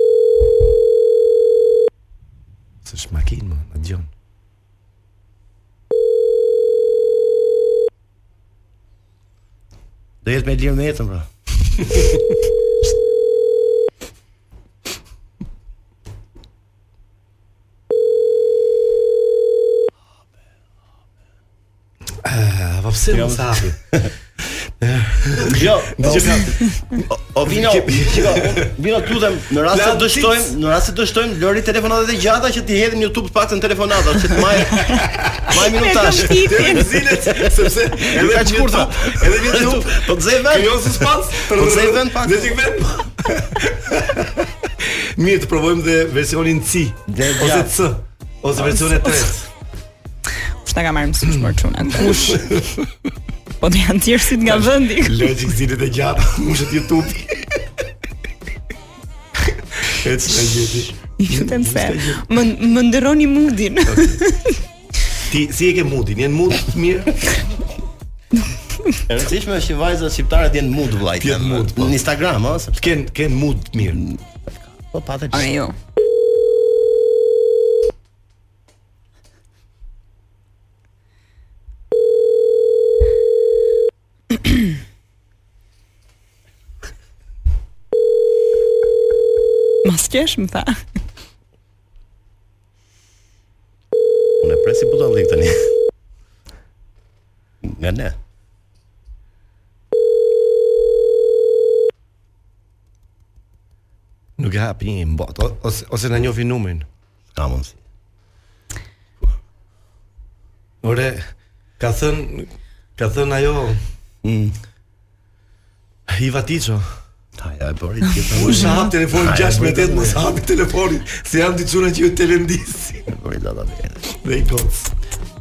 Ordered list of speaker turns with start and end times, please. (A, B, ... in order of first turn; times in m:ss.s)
0:02.8-0:04.1 A
0:10.2-0:11.3 B
0:22.2-0:23.8 A
0:23.1-0:24.1 B
0:24.8-0:28.7 A
0:25.4-0:42.6 B
0:29.7-0:30.5 A
0:34.8-0:35.3 A
0:35.5-0:36.9 C
0:36.2-0:49.5 A
0:47.1-0:47.7 B
0:50.6-0:52.5 C
0:52.0-0:52.8 A
0:53.6-0:55.3 C
0:54.4-0:57.6 A
0:59.8-1:02.2 A
1:01.2-1:04.6 C
1:03.8-1:04.2 A
1:05.3-1:07.2 A
1:09.1-1:13.0 B
1:11.2-1:12.0 A
1:12.8-1:14.0 A
1:13.9-1:14.2 B
1:14.7-1:15.5 B
1:15.3-1:15.7 C
1:29.8-1:30.8 C
1:34.4-1:35.7 B
1:37.6-1:38.1 B
1:44.4-1:46.9 A
1:47.4-1:47.8 B
1:50.8-1:51.3 A
1:51.8-1:53.8 A
1:54.2-1:54.5 B
1:56.1-1:56.9 A
1:57.4-2:00.2 B
1:58.3-2:03.1 A
2:03.1-2:04.0 B
2:04.1-2:04.9 A